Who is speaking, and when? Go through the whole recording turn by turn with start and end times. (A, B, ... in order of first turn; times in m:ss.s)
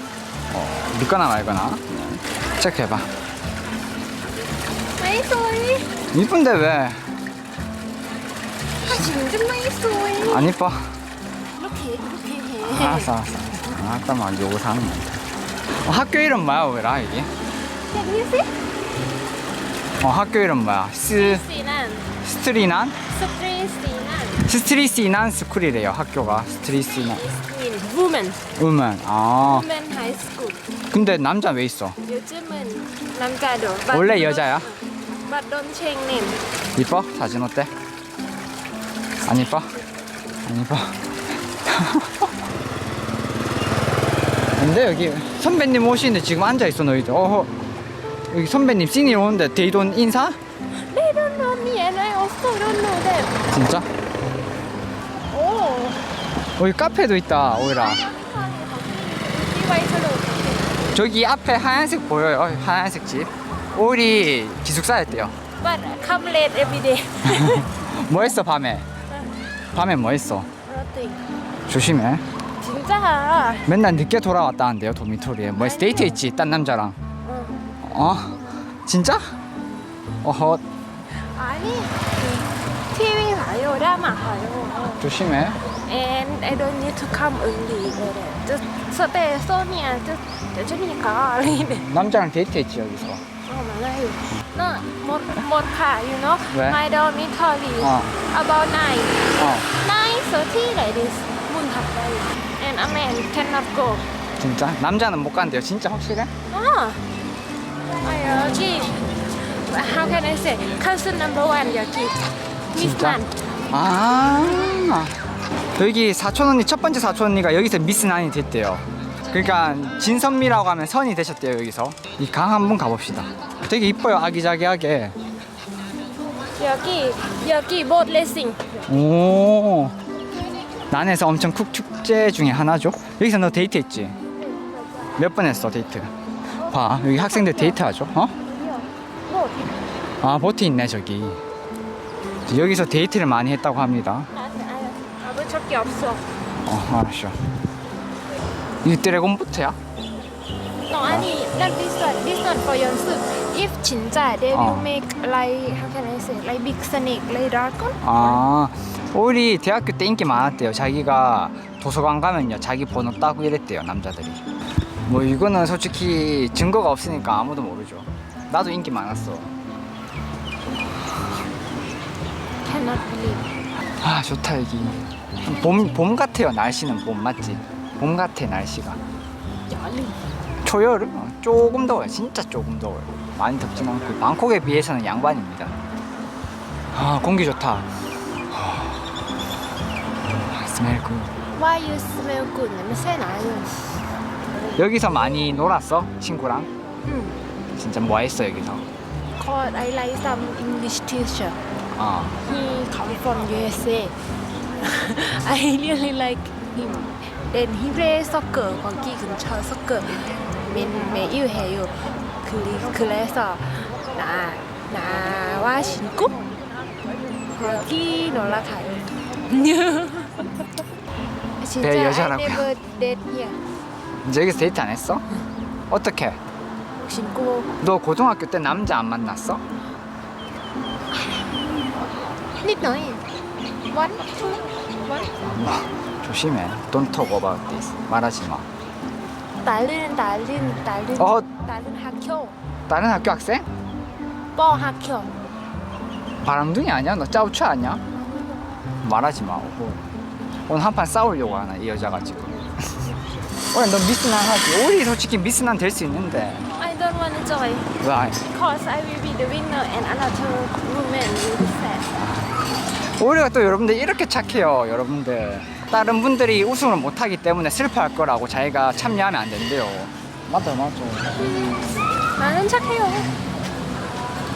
0:00.5-0:02.0 A
0:02.6-0:03.1 A
0:05.0-0:05.9 B
0:06.1-0:07.1 A
0:08.8-0:10.5 B
0:08.9-0:09.1 A
0:10.2-0:10.8 A
0:11.6-0:13.1 B
0:12.6-0:15.1 A
0:15.7-0:17.3 A
0:17.9-0:18.5 B
0:20.0-0:21.4 A
0:21.1-0:22.1 B
0:22.2-0:23.0 A
0:23.1-0:24.4 B
0:24.4-0:27.2 A
0:26.7-0:28.4 B
0:28.6-0:29.7 A
0:29.4-0:30.6 B
0:30.9-0:32.0 A
0:32.0-0:36.4 B
0:33.9-0:34.7 A
0:36.8-0:37.7 A
0:39.2-0:39.7 A
0:40.4-0:41.0 A
0:41.5-0:42.3 A
0:44.6-0:47.5 A
0:48.3-0:50.4 A
0:50.8-0:53.4 B
0:53.5-0:53.9 A
0:55.3-0:56.0 B
0:56.6-0:58.0 A
0:57.6-1:00.8 B
1:00.9-1:05.3 A
1:05.6-1:07.7 B
1:07.2-1:08.9 A
1:09.7-1:10.5 A
1:10.6-1:11.2 B
1:11.7-1:12.2 A
1:12.6-1:13.7 B
1:13.6-1:17.0 A
1:15.6-1:16.2 B
1:17.2-1:17.8 B
1:17.8-1:19.3 A
1:20.2-1:20.6 A
1:21.1-1:25.1 B
1:25.0-1:25.6 A
1:25.8-1:31.9 B
1:31.9-1:33.2 A
1:33.4-1:44.1 B
1:36.5-1:36.8 A
1:37.8-1:38.1 A
1:39.4-1:39.7 A
1:44.4-1:46.3 A
1:46.5-1:47.0 B
1:48.0-1:53.3 B
1:52.7-1:53.2 A
1:53.7-2:05.2 A
2:06.6-2:08.7 B
2:08.9-2:09.9 A
2:10.9-2:14.2 A
2:14.4-2:15.2 B
2:15.2-2:16.1 A
2:16.5-2:17.8 B
2:16.6-2:18.3 A
2:18.4-2:19.9 B
2:20.2-2:21.4 A
2:22.5-2:24.3 A
2:24.3-2:26.2 B
2:26.6-2:27.4 A
2:28.8-2:29.8 A
2:30.9-2:38.4 B
2:34.5-2:34.9 A
2:38.0-2:44.4 A
2:45.0-2:49.5 A
2:52.6-2:53.5 B
2:54.0-2:59.0 A
2:55.4-2:56.0 B
2:59.7-3:00.2 B
3:00.6-3:05.7 A
3:06.9-3:07.9 A
3:08.5-3:09.1 A
3:10.2-3:11.3 A
3:11.5-3:13.9 B
3:14.8-3:16.7 A
3:17.0-3:17.4 B
3:17.7-3:18.8 A
3:19.4-3:21.6 B
3:22.0-3:22.4 A
3:22.4-3:24.1 B
3:24.8-3:36.4 B
3:37.5-3:40.4 B
3:41.6-3:43.6 B
3:41.8-3:42.7 A
3:44.2-3:45.2 A
3:45.9-3:46.4 A
3:46.9-3:47.7 B
3:47.8-3:49.6 A
3:52.6-3:53.2 B
3:53.9-3:55.3 B
3:55.4-3:58.6 A
3:59.6-4:02.6 B
4:01.2-4:01.4 A
4:02.9-4:03.6 A
4:04.5-4:05.3 B
4:06.4-4:08.0 A
4:09.0-4:10.0 A
4:10.7-4:13.1 A
4:13.7-4:16.7 A
4:16.7-4:22.1 B
4:18.0-4:18.4 A
4:22.2-4:22.5 A
4:23.2-4:31.5 A
4:31.4-4:33.3 B